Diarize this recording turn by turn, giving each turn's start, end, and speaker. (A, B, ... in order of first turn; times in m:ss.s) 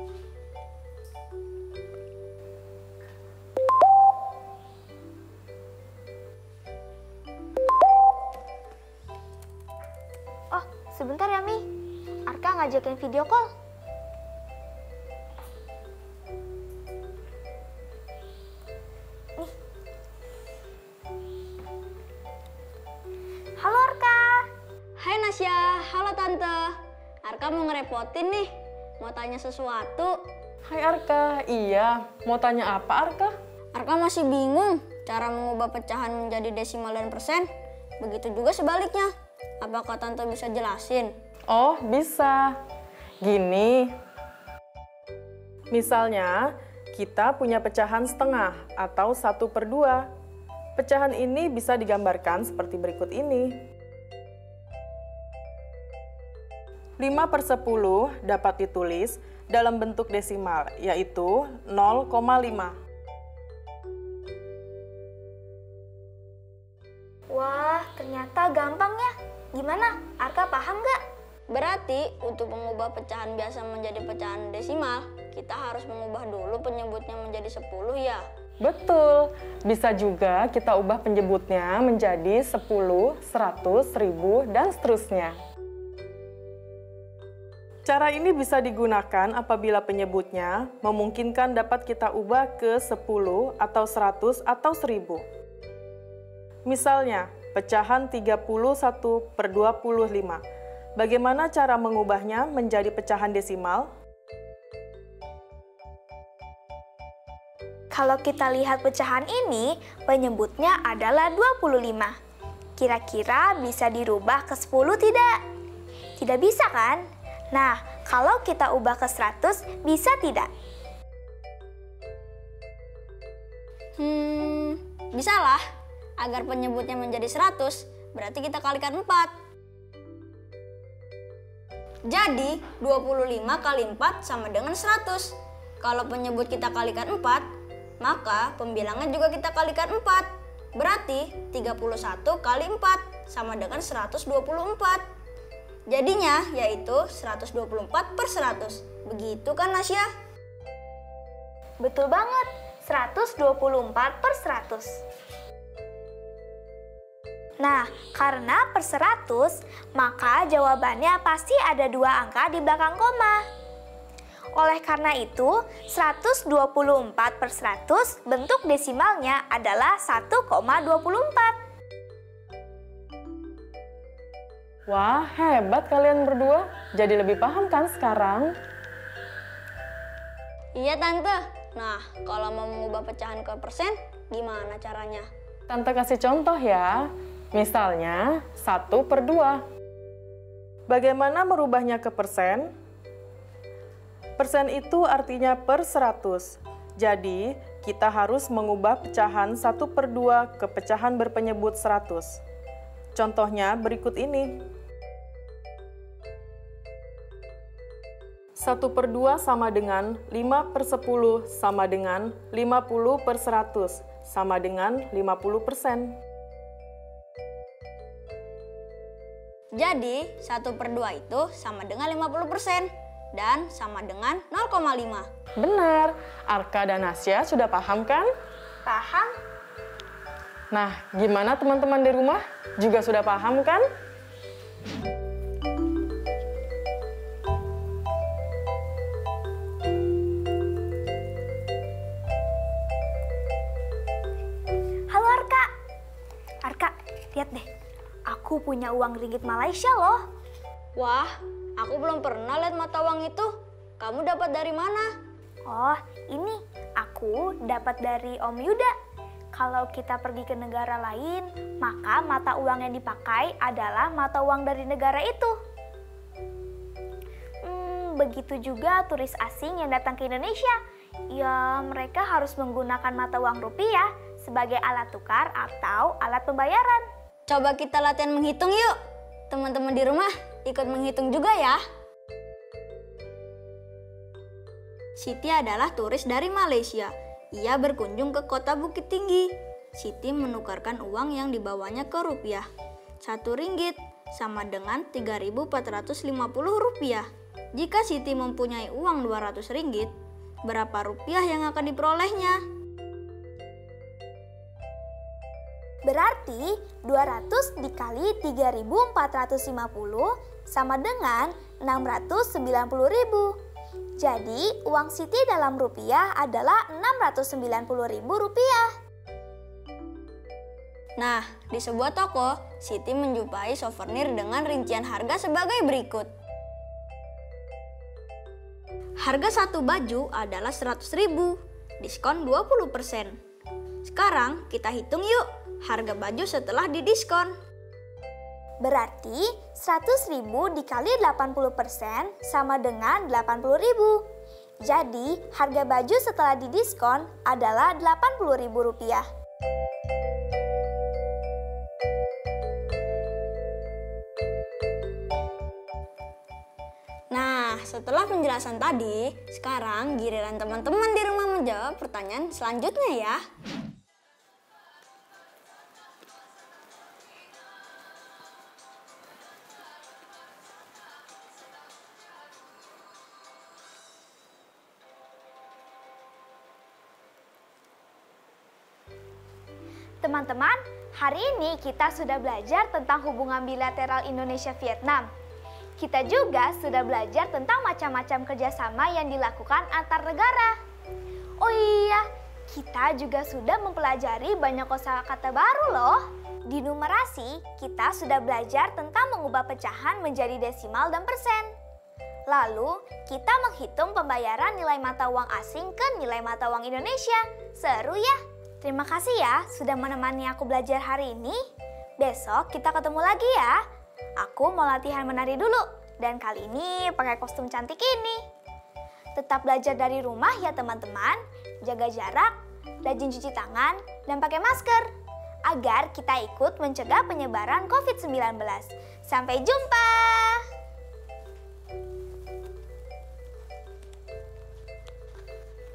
0:10.5-0:11.6 A
0:12.3-0:13.5 A
0:23.6-0:24.5 A
0:25.0-0:30.2 B
0:30.6-0:33.4 C
0:33.7-0:37.5 B
0:38.0-0:41.1 B
0:41.5-0:42.6 C
0:43.2-0:43.9 C
0:45.7-0:50.1 C
0:50.8-0:53.6 C
0:57.0-1:02.8 C
1:07.3-1:11.0 A
1:11.5-1:18.2 B
1:18.6-1:25.4 C
1:27.8-1:35.2 C
1:36.6-1:40.4 C
1:41.0-1:43.9 C
1:47.9-1:52.1 A
1:52.8-1:55.3 A
1:56.2-2:00.5 A
2:04.0-2:05.6 B
2:06.2-2:09.3 B
2:12.1-2:17.5 B
2:18.0-2:25.0 B
2:25.9-2:30.1 B
2:31.8-2:35.0 A
2:37.6-2:43.4 A
2:44.6-2:51.6 A
2:54.9-2:58.5 C
3:00.8-3:05.3 B
3:05.7-3:09.6 C
3:10.9-3:12.7 C
3:14.4-3:22.4 C
3:23.1-3:24.6 C
3:28.6-3:36.2 C
3:39.7-3:45.3 B
3:45.6-3:48.3 C
3:48.8-3:49.3 A
3:50.7-3:53.8 C
4:05.1-4:05.7 A
4:06.6-4:07.6 A
4:08.3-4:10.2 A
4:11.0-4:15.1 B
4:15.7-4:18.9 A
4:19.5-4:25.5 A
4:27.6-4:30.8 A
4:31.3-4:37.0 A
4:37.5-4:39.0 B
4:39.5-4:41.8 B
4:45.2-4:52.7 B
4:53.2-5:00.1 B
5:00.6-5:02.6 B
5:06.0-5:13.5 A
5:14.2-5:18.9 A
5:21.2-5:26.3 B
5:29.2-5:33.4 B
5:34.0-5:37.5 B
5:38.8-5:44.2 A
5:44.8-5:49.2 A
5:57.3-6:03.4 B
6:20.2-6:25.3 A
6:26.0-6:30.8 A
6:31.6-6:41.7 A
6:42.5-6:51.6 A
6:52.2-6:53.7 A
6:54.4-6:58.4 A
6:59.4-7:05.1 A
7:05.7-7:10.6 A